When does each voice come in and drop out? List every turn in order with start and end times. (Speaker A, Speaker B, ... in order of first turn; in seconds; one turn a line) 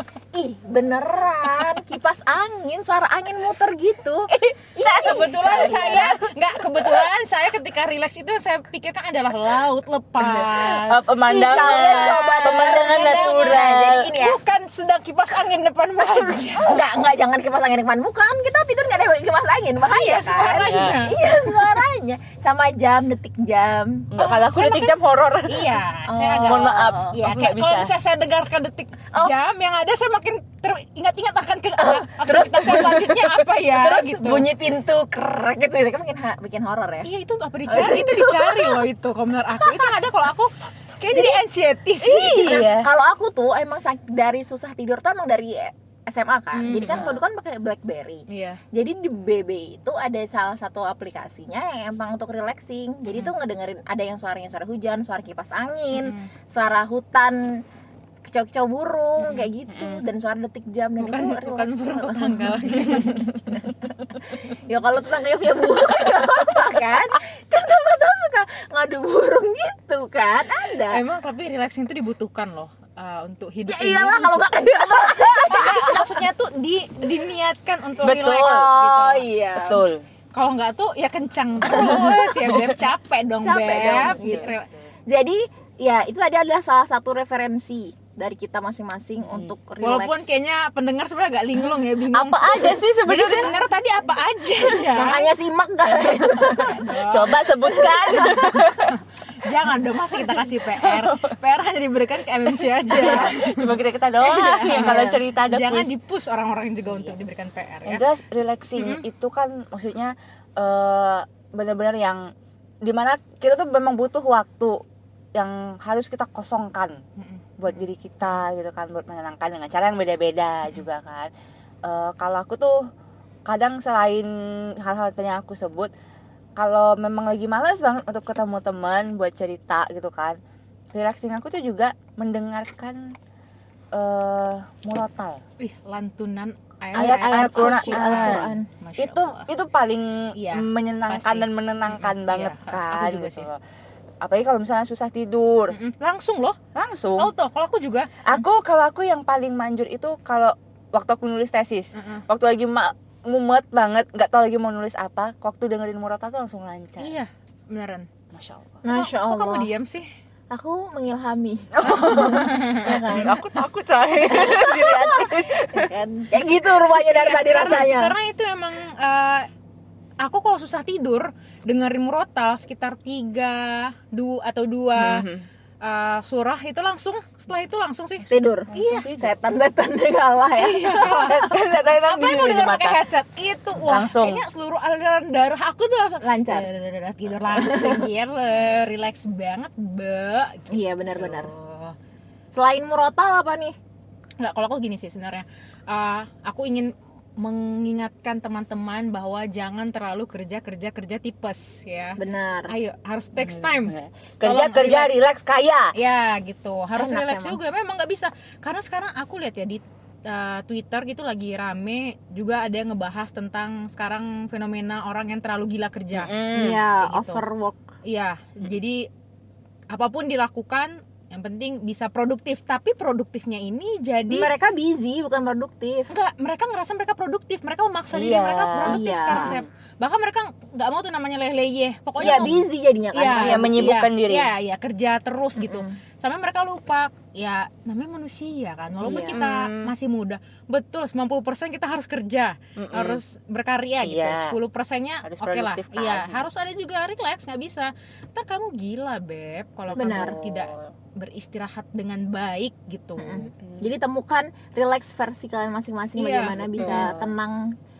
Speaker A: 0.3-6.3
Speaker B: 4.3-6.0
Speaker C: 4.9-16.8
Speaker B: 10.4-14.1
Speaker A: 11.2-14.4
Speaker A: 16.6-24.1
Speaker C: 19.9-21.8
Speaker B: 20.7-21.0
Speaker B: 24.1-25.8
Speaker C: 24.2-24.9
Speaker C: 25.5-34.5
Speaker A: 26.1-27.2
Speaker B: 26.4-27.9
Speaker A: 31.8-37.1
Speaker C: 37.0-42.6
Speaker A: 37.7-38.9
Speaker A: 39.6-39.9
Speaker A: 41.1-41.4
Speaker B: 42.0-42.9
Speaker A: 42.4-57.6
Speaker C: 46.5-47.2
Speaker C: 48.3-48.6
Speaker C: 55.9-56.3
Speaker A: 58.2-63.6
Speaker C: 59.2-59.5
Speaker B: 59.7-60.0
Speaker C: 61.0-63.5
Speaker A: 64.3-71.0
Speaker C: 70.9-79.3
Speaker A: 73.7-76.2
Speaker B: 78.0-78.7
Speaker A: 78.2-79.8
Speaker B: 79.5-80.0
Speaker C: 80.3-84.7
Speaker A: 81.7-82.2
Speaker B: 81.7-82.7
Speaker A: 83.4-84.5
Speaker B: 83.8-84.5
Speaker A: 85.1-90.3
Speaker C: 89.8-95.3
Speaker B: 92.1-93.5
Speaker A: 94.8-96.8
Speaker C: 95.9-108.0
Speaker B: 96.9-99.0
Speaker A: 97.6-98.5
Speaker B: 100.4-101.4
Speaker B: 102.8-105.9
Speaker A: 104.8-105.2
Speaker B: 107.8-112.3
Speaker C: 108.8-109.0
Speaker B: 112.8-114.8
Speaker B: 115.3-117.0
Speaker C: 117.2-117.9
Speaker B: 117.6-121.3
Speaker B: 121.8-122.8
Speaker B: 123.5-125.9
Speaker B: 126.6-130.4
Speaker B: 130.9-133.1
Speaker B: 133.9-135.4
Speaker C: 135.6-139.5
Speaker A: 136.9-138.7
Speaker B: 137.0-143.6
Speaker C: 140.3-143.5
Speaker B: 144.2-145.8
Speaker C: 145.7-146.6
Speaker B: 146.7-147.3
Speaker C: 147.2-148.2
Speaker B: 148.2-157.2
Speaker C: 151.9-152.2
Speaker C: 157.0-158.1
Speaker B: 158.3-158.8
Speaker A: 158.8-159.7
Speaker C: 158.8-160.1
Speaker A: 160.5-163.4
Speaker B: 161.7-165.9
Speaker C: 161.8-163.0
Speaker A: 164.2-168.2
Speaker C: 166.9-169.5
Speaker C: 170.2-175.3
Speaker B: 175.0-175.4
Speaker C: 175.8-179.1
Speaker A: 178.3-181.6
Speaker B: 178.7-179.3
Speaker C: 180.6-191.9
Speaker B: 181.2-183.0
Speaker B: 183.8-184.4
Speaker A: 186.2-186.7
Speaker A: 187.5-188.1
Speaker A: 190.7-191.5
Speaker A: 192.5-193.8
Speaker C: 194.4-205.2
Speaker A: 202.2-202.8
Speaker B: 203.4-205.9
Speaker C: 205.9-217.4
Speaker A: 206.9-207.6
Speaker B: 216.1-216.8
Speaker A: 216.5-217.8
Speaker C: 218.0-219.1
Speaker C: 219.9-224.5
Speaker A: 224.3-226.1
Speaker C: 226.1-253.5
Speaker B: 228.1-229.7
Speaker A: 228.8-229.6
Speaker A: 232.2-234.1
Speaker B: 233.3-234.5
Speaker A: 235.6-235.9
Speaker A: 239.0-239.4
Speaker B: 239.2-239.9
Speaker B: 242.8-243.2
Speaker B: 244.0-244.6
Speaker B: 245.2-246.4
Speaker A: 249.9-250.4
Speaker B: 250.0-250.9
Speaker A: 253.2-257.7
Speaker B: 253.6-253.9
Speaker C: 256.2-257.1
Speaker B: 256.8-257.3